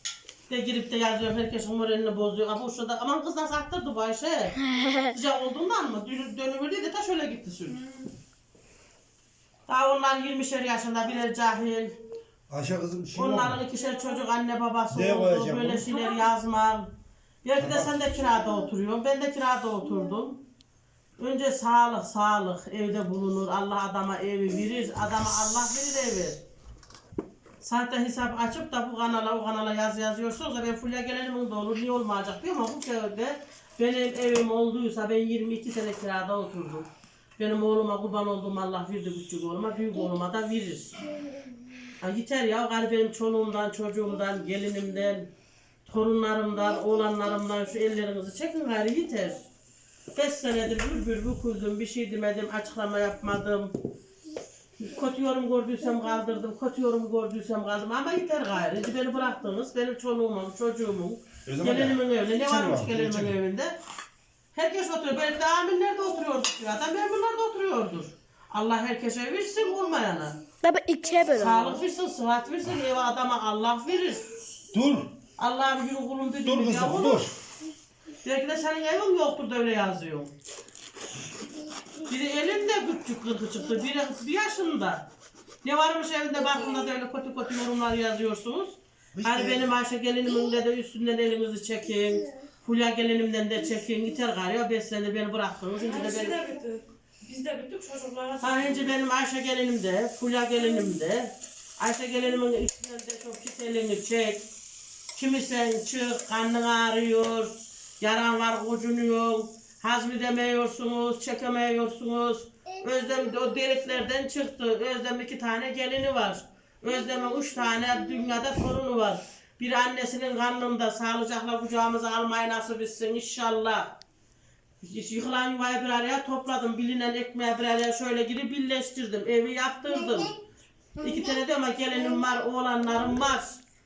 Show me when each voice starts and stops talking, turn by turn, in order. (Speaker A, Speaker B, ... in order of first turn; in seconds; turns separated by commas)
Speaker A: 0.5-4.6, Speaker B: 4.6-5.2, Speaker A: 5.1-7.8, Speaker C: 7.7-8.1, Speaker A: 9.7-11.9, Speaker D: 12.5-13.6, Speaker A: 13.2-16.9, Speaker D: 14.9-16.0, Speaker A: 17.4-20.4, Speaker D: 17.6-17.9, Speaker A: 21.2-26.4, Speaker A: 27.6-41.0, Speaker B: 41.0-41.9, Speaker A: 42.0-45.3, Speaker A: 45.9-49.4, Speaker A: 50.1-53.7, Speaker A: 54.8-63.8, Speaker D: 61.5-63.4, Speaker A: 64.5-70.4, Speaker B: 70.6-71.8, Speaker A: 71.4-74.2, Speaker D: 74.7-75.1, Speaker A: 75.4-77.3, Speaker D: 76.4-77.4, Speaker A: 78.2-80.3, Speaker A: 82.1-85.1, Speaker A: 85.6-96.4, Speaker D: 89.2-89.7, Speaker C: 95.8-99.0, Speaker A: 98.4-104.5, Speaker A: 105.2-124.0, Speaker B: 112.8-113.8, Speaker B: 117.5-118.0, Speaker A: 124.8-130.3, Speaker B: 129.9-130.4, Speaker B: 131.0-131.3, Speaker A: 131.0-133.6